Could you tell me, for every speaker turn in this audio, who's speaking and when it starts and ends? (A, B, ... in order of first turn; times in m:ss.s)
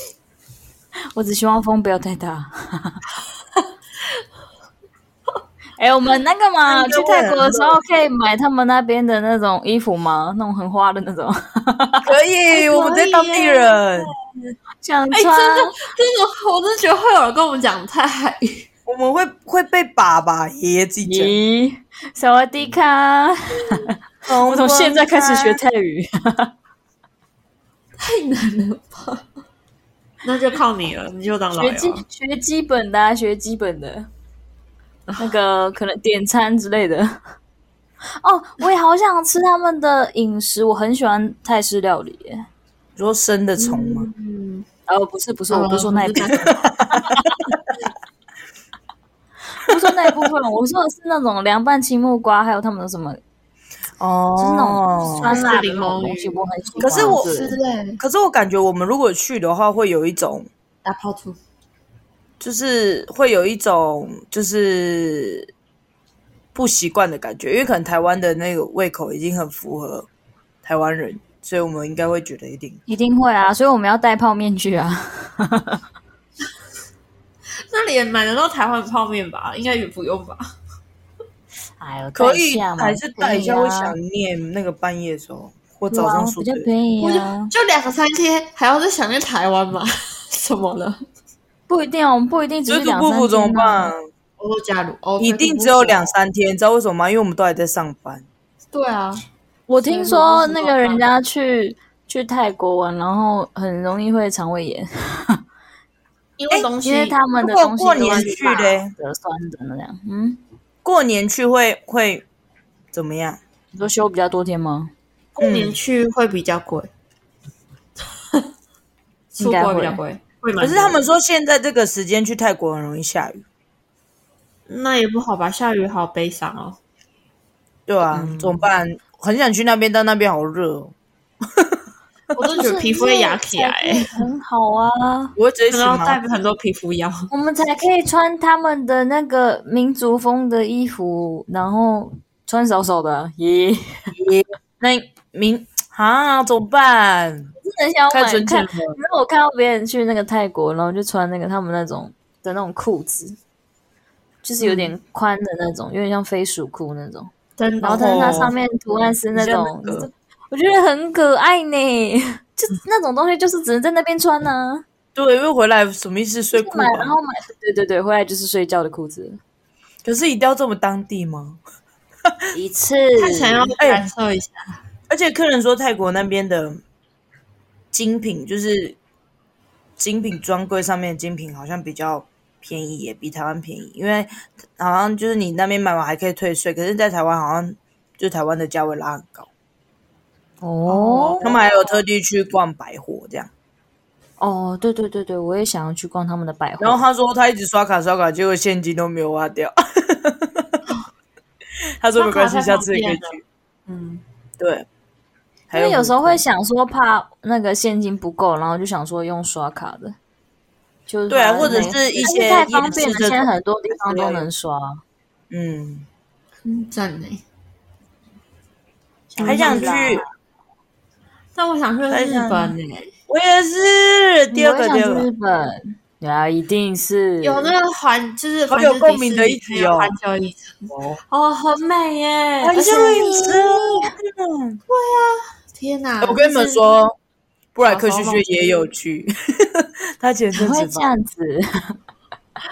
0:01.1-0:03.0 A
0:05.8-0:12.1 A
0:06.6-0:07.8 B
0:12.0-0:14.1 B
0:12.5-0:14.1 C
0:14.8-0:15.8 A
0:15.1-0:18.7 C
0:18.8-0:21.4 B
0:21.0-0:26.5 A
0:24.2-0:25.6 B
0:28.0-0:29.2 C
0:30.2-0:32.0 C
0:31.5-0:34.1 A
0:35.2-0:37.2 A
0:38.2-0:42.4 A
0:43.0-0:44.1 B
0:43.6-0:44.6 C
0:44.9-0:46.5 A
0:45.5-0:46.6 C
0:46.4-0:47.1 B
0:49.6-0:53.2 A
0:54.0-0:55.4 B
0:54.4-0:57.6 A
0:55.2-0:58.0 C
0:56.8-0:57.4 B
0:58.0-1:00.5 B
1:00.8-1:01.4 C
1:02.4-1:05.5 B
1:06.5-1:10.1 B
1:10.6-1:12.8 B
1:12.9-1:15.8 A
1:17.7-1:20.5 C
1:21.8-1:23.9 A
1:22.1-1:26.7 B
1:25.9-1:27.5 A
1:27.0-1:31.0 C
1:31.7-1:33.9 A
1:32.7-1:34.1 B
1:34.4-1:36.1 C
1:35.2-1:38.2 B
1:38.7-1:39.2 C
1:39.7-1:45.4 A
1:39.8-1:41.0 C
1:46.4-1:47.2 C
1:46.8-1:50.4 A
1:47.4-1:48.9 B
1:48.0-1:48.8 C
1:50.8-1:52.2 B
1:52.9-1:53.4 B
1:53.7-1:54.9 A
1:55.4-1:56.9 C
1:55.4-1:55.8 B
1:59.3-2:01.0 C
1:59.4-2:00.0 A
2:00.6-2:03.4 B
2:04.7-2:06.8 C
2:07.9-2:10.9 B
2:08.1-2:08.6 C
2:12.4-2:14.1 C
2:12.5-2:15.3 A
2:15.4-2:16.2 B
2:15.7-2:17.3 C
2:17.3-2:24.1 A
2:24.2-2:27.5 B
2:27.6-2:33.4 A
2:28.1-2:29.0 B
2:34.4-2:44.8 A
2:34.6-2:34.9 C
2:37.6-2:38.5 C
2:37.9-2:38.5 B
2:39.3-2:40.1 B
2:45.1-2:47.2 B
2:46.5-2:49.4 A
2:50.0-2:51.6 B
2:52.5-2:53.7 A
2:53.2-2:54.8 C
2:53.8-2:54.0 B
2:55.1-2:56.8 B
2:57.9-2:59.0 B
3:00.0-3:09.5 B
3:10.6-3:11.6 A
3:10.8-3:12.0 C
3:11.4-3:13.5 B
3:14.4-3:17.0 A
3:16.8-3:20.8 B
3:22.0-3:23.4 B
3:22.2-3:24.2 C
3:24.6-3:24.8 B
3:25.7-3:26.4 B
3:25.7-3:30.2 A
3:31.1-3:35.0 A
3:31.3-3:34.4 B
3:31.6-3:32.6 C
3:35.5-3:36.0 B
3:36.6-3:37.4 C
3:39.3-3:40.3 A
3:39.3-3:40.0 C
3:39.4-3:40.2 B
3:41.5-3:43.1 C
3:42.1-3:42.7 B
3:43.3-3:45.3 B
3:44.5-3:47.7 A
3:47.4-3:53.7 C
3:48.7-3:50.1 B
3:50.9-3:51.2 B
3:52.6-3:54.8 B
3:52.7-3:53.7 A
3:54.9-3:56.9 C
3:56.2-3:57.2 B
3:57.7-4:01.1 B
3:57.8-3:58.9 C
4:00.5-4:02.0 A